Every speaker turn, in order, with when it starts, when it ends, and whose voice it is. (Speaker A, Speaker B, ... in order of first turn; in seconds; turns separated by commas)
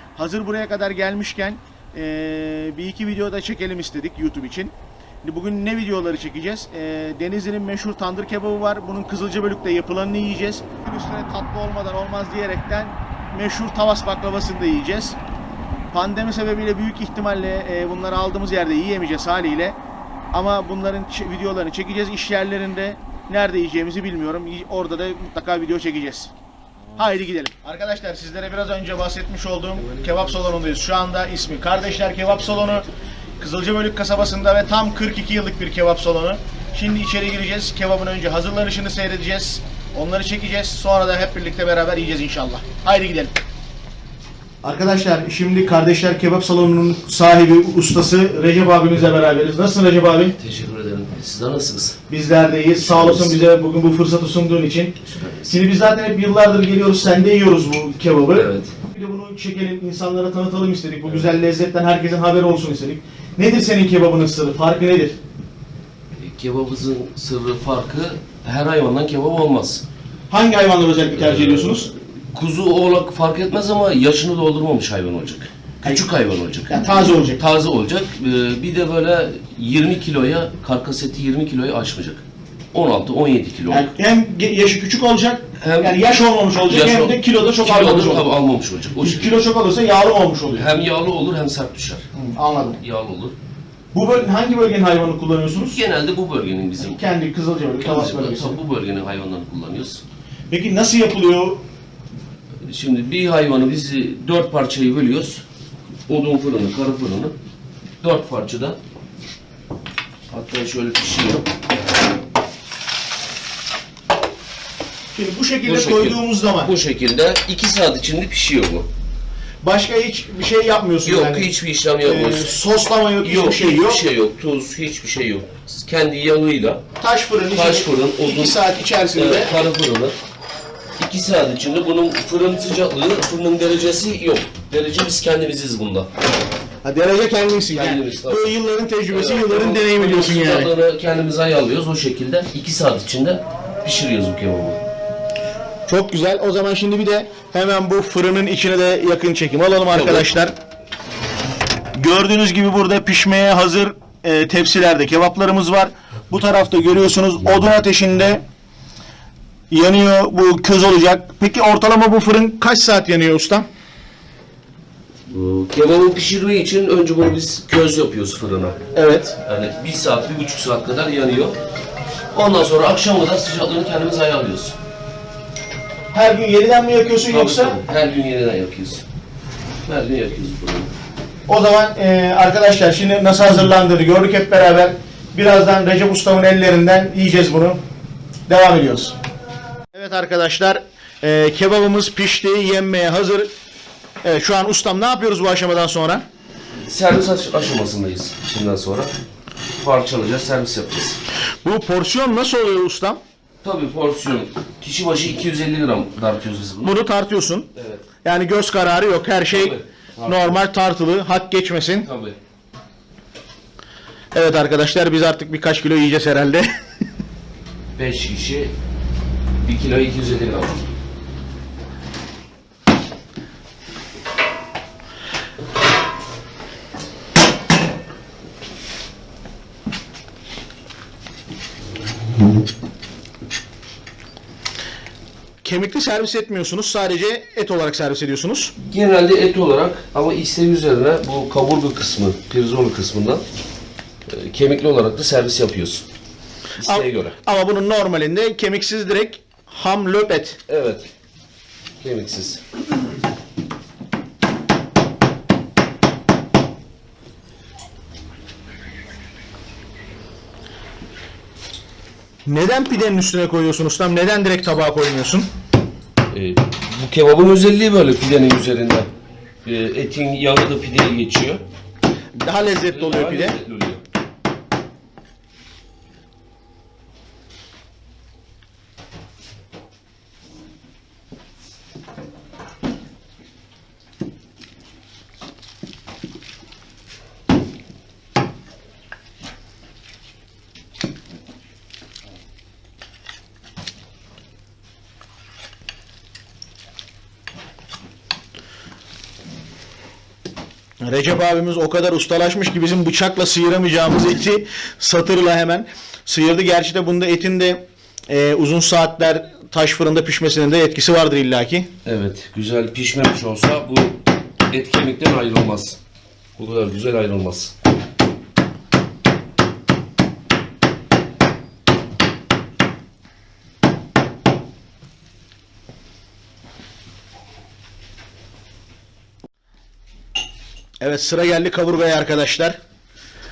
Speaker A: 0.2-15.2, Speaker A: 15.9-19.8, Speaker A: 20.3-26.3, Speaker A: 27.0-32.9, Speaker B: 29.8-30.6, Speaker B: 31.8-32.9, Speaker A: 33.4-43.3, Speaker A: 44.6-50.4, Speaker B: 50.4-52.0, Speaker A: 52.1-55.0, Speaker B: 52.8-53.4, Speaker B: 55.0-55.6, Speaker A: 55.5-65.2, Speaker B: 58.3-58.8, Speaker B: 61.0-61.4, Speaker B: 66.2-69.8, Speaker A: 70.3-71.9, Speaker B: 71.2-83.9, Speaker A: 76.7-77.4, Speaker A: 83.7-88.3, Speaker B: 85.6-86.0, Speaker B: 86.7-89.3, Speaker A: 89.0-90.8, Speaker B: 90.5-92.0, Speaker A: 92.2-92.8, Speaker B: 92.8-93.4, Speaker A: 93.9-95.8, Speaker B: 95.6-97.0, Speaker A: 96.8-98.6, Speaker B: 97.8-100.0, Speaker A: 100.5-101.6, Speaker B: 102.7-105.4, Speaker B: 106.1-107.3, Speaker B: 108.0-108.8, Speaker B: 110.3-111.5, Speaker A: 115.1-116.7, Speaker B: 115.7-118.9, Speaker A: 119.6-121.5, Speaker B: 121.0-122.5, Speaker A: 122.0-124.0, Speaker B: 123.2-126.8, Speaker A: 127.0-129.6, Speaker B: 127.5-128.6, Speaker B: 129.1-130.2, Speaker B: 131.0-136.1, Speaker A: 136.8-140.7, Speaker B: 137.7-138.6, Speaker B: 139.1-144.8, Speaker A: 145.9-150.5, Speaker B: 149.9-150.3, Speaker A: 152.0-158.4, Speaker A: 159.7-163.7, Speaker B: 165.3-168.8, Speaker A: 168.9-169.4, Speaker B: 169.4-171.6, Speaker B: 172.3-174.8, Speaker A: 176.1-177.8, Speaker B: 177.3-179.1, Speaker B: 179.9-180.9, Speaker A: 181.5-187.8, Speaker A: 188.5-189.2, Speaker A: 189.9-193.5, Speaker A: 194.2-196.2, Speaker B: 196.8-199.1, Speaker B: 199.8-201.2, Speaker A: 201.6-203.2, Speaker B: 203.6-207.0, Speaker A: 206.8-207.7, Speaker B: 207.8-208.1, Speaker A: 208.2-212.1, Speaker B: 209.5-210.6, Speaker B: 212.0-212.4, Speaker A: 214.3-216.7, Speaker B: 218.0-218.8, Speaker B: 219.6-220.9, Speaker A: 235.6-238.7, Speaker B: 238.8-243.4, Speaker B: 244.3-246.1, Speaker B: 246.8-247.4, Speaker A: 246.8-250.6, Speaker B: 250.7-251.1, Speaker B: 252.0-252.6, Speaker A: 262.5-265.5, Speaker B: 266.3-269.1, Speaker B: 269.6-271.6, Speaker A: 272.4-273.6, Speaker B: 272.8-274.0, Speaker A: 301.0-311.9, Speaker B: 312.1-316.0, Speaker B: 316.6-317.7, Speaker A: 331.0-332.8